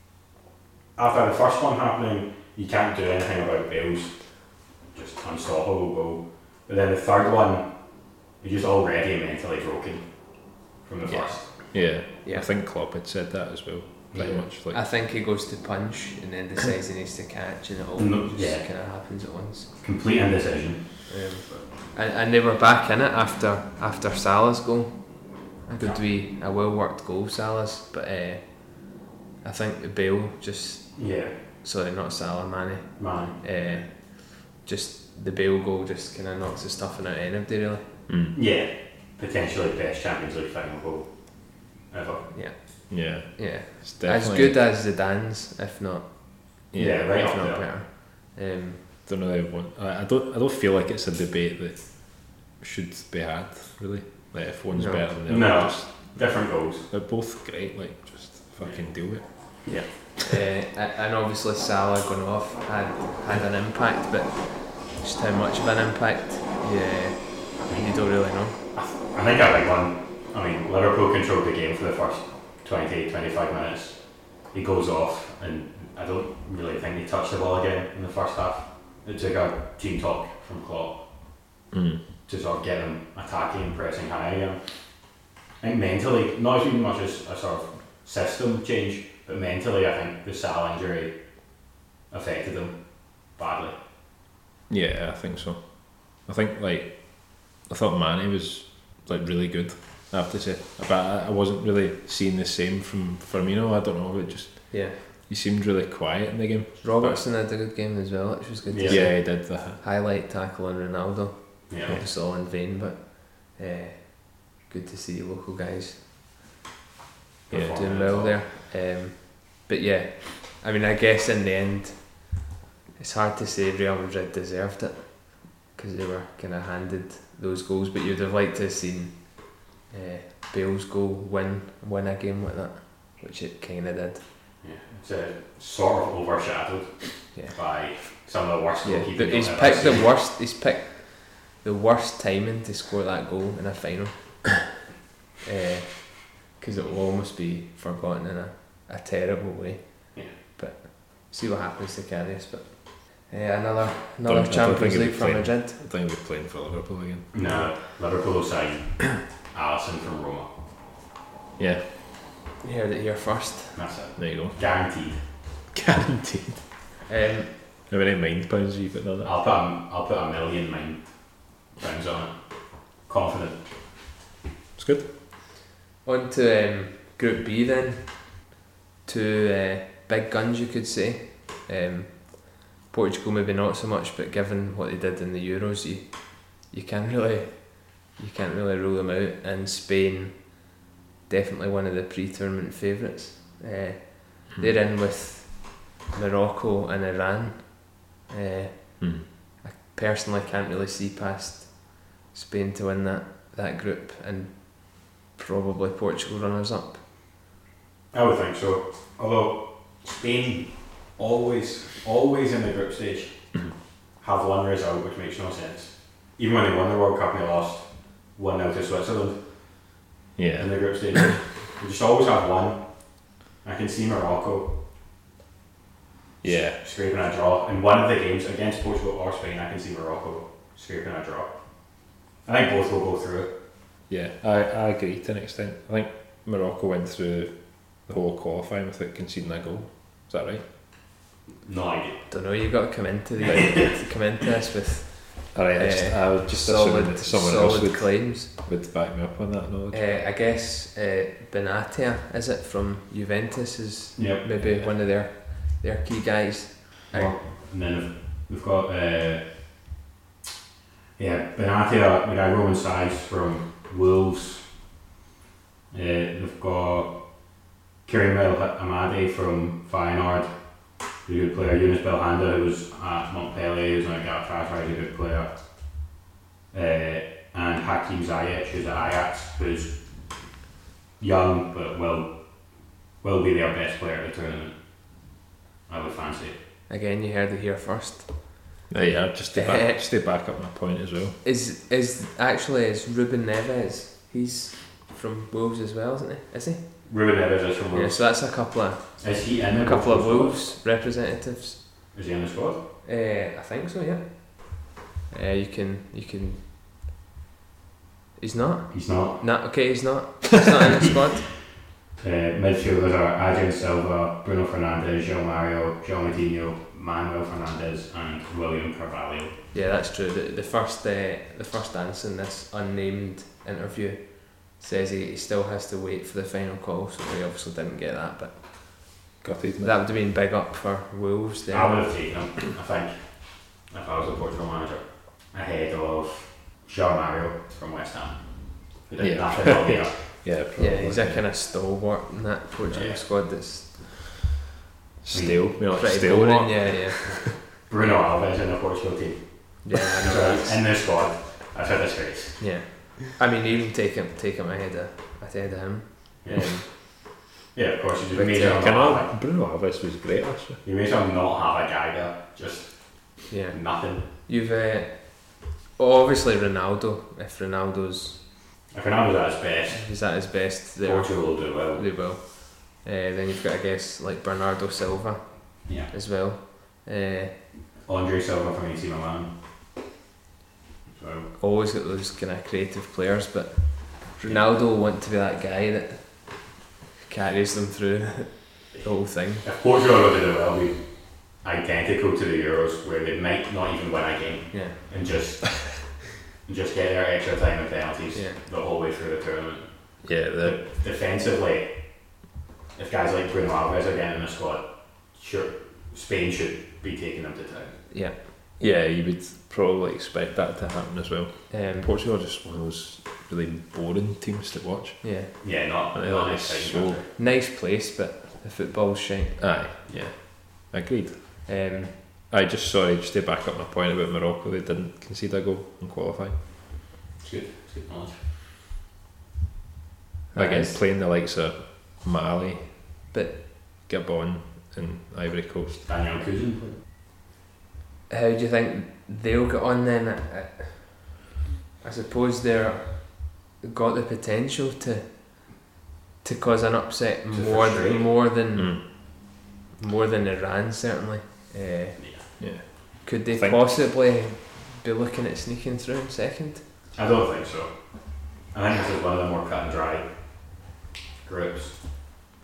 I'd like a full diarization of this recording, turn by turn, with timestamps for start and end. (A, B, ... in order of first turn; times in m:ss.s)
0:01.0-0:11.5 A
0:11.1-0:14.8 B
0:12.2-0:12.5 C
0:14.1-0:14.5 A
0:14.7-0:19.7 C
0:18.0-0:18.9 A
0:19.8-0:21.7 A
0:21.1-0:37.9 C
0:25.8-0:26.0 A
0:31.0-0:31.4 A
0:33.0-0:33.7 A
0:38.1-0:38.4 B
0:38.3-0:42.3 A
0:42.3-0:48.8 C
0:42.9-0:44.6 B
0:46.7-0:47.1 B
0:46.8-0:47.7 A
0:49.1-1:00.0 B
0:54.7-0:55.1 C
0:55.3-0:56.9 A
0:58.6-0:59.6 A
0:59.6-1:08.6 C
1:07.6-1:21.3 A
1:21.7-1:22.0 B
1:22.3-1:33.8 A
1:34.7-1:47.2 B
1:44.7-1:45.0 C
1:46.8-1:56.1 C
1:48.7-1:49.1 A
1:48.9-1:49.8 B
1:51.7-1:52.0 A
1:57.5-1:58.4 A
1:57.5-2:14.2 C
2:14.6-2:20.2 A
2:18.8-2:19.1 B
2:19.1-2:24.8 C
2:25.4-2:35.8 C
2:34.3-2:37.3 B
2:37.3-2:40.5 A
2:37.4-2:37.7 C
2:41.6-2:41.9 B
2:42.6-2:43.8 C
2:43.8-2:45.3 A
2:44.2-2:44.6 B
2:45.7-2:46.6 B
2:47.1-2:47.5 C
2:47.9-2:49.3 B
2:49.2-2:53.7 A
2:54.8-2:55.1 B
2:56.0-2:58.5 C
2:59.0-3:10.8 C
3:11.3-3:27.0 C
3:19.0-3:19.2 B
3:28.1-3:40.0 A
3:40.4-3:41.3 B
3:40.6-3:44.8 A
3:46.4-3:53.5 A
3:46.4-3:46.8 B
3:54.1-4:00.7 B
4:01.6-4:02.3 A
4:02.3-4:08.5 C
4:03.4-4:04.0 A
4:05.5-4:10.1 B
4:09.9-4:17.3 C
4:14.2-4:14.6 A
4:17.1-4:19.9 A
4:21.2-4:24.8 A
4:25.9-4:27.5 A
4:28.0-4:36.0 A
4:36.7-4:40.4 A
4:41.2-4:45.4 A
4:45.9-4:46.6 A
4:46.9-4:48.8 C
4:48.9-4:51.4 B
4:49.5-4:50.0 C
4:51.4-4:57.3 C
4:57.0-5:00.7 A
4:57.9-5:01.9 C
5:02.1-5:02.8 A
5:03.0-5:06.7 C
5:08.4-5:11.5 C
5:08.9-5:09.4 A
5:12.2-5:19.6 A
5:19.7-5:29.3 C
5:29.4-5:30.0 B
5:29.8-5:32.1 C
5:31.7-5:40.2 A
5:39.2-5:41.5 B
5:40.7-5:44.1 C
5:42.9-5:43.2 A
5:45.2-5:47.4 B
5:45.3-5:46.0 A
5:45.8-5:47.6 C
5:47.2-5:52.8 A
5:49.8-5:50.8 C
5:52.6-5:56.8 C
5:56.4-5:59.3 A
5:58.4-5:58.8 C
5:58.6-6:00.8 B
6:00.8-6:04.3 A
6:03.5-6:08.5 C
6:08.9-6:12.1 A
6:09.9-6:17.6 C
6:15.9-6:16.1 A
6:18.0-6:19.6 A
6:21.1-6:21.5 A
6:21.6-6:26.8 C
6:27.3-6:29.6 C
6:29.6-6:48.1 A
6:34.7-6:35.0 C
6:38.3-6:38.6 C
6:40.2-6:40.8 B
6:48.1-6:48.4 C
6:48.8-6:57.2 B
6:51.7-6:52.1 C
6:55.2-6:55.5 C
6:55.6-6:57.3 A
6:57.4-6:59.7 C
6:59.6-7:01.8 B
7:01.7-7:02.2 C
7:02.5-7:06.6 B
7:07.4-7:08.5 A
7:10.5-7:11.0 C
7:10.6-7:13.3 B
7:13.3-7:13.6 C
7:14.0-7:16.1 B
7:16.1-7:17.0 A
7:18.3-7:21.5 C
7:22.0-7:25.8 C
7:26.4-7:32.7 C
7:27.5-7:28.3 A
7:28.7-7:29.0 B
7:32.2-7:32.5 A
7:32.6-7:33.9 B
7:33.2-7:36.8 C
7:37.2-7:40.8 A
7:41.4-7:42.4 A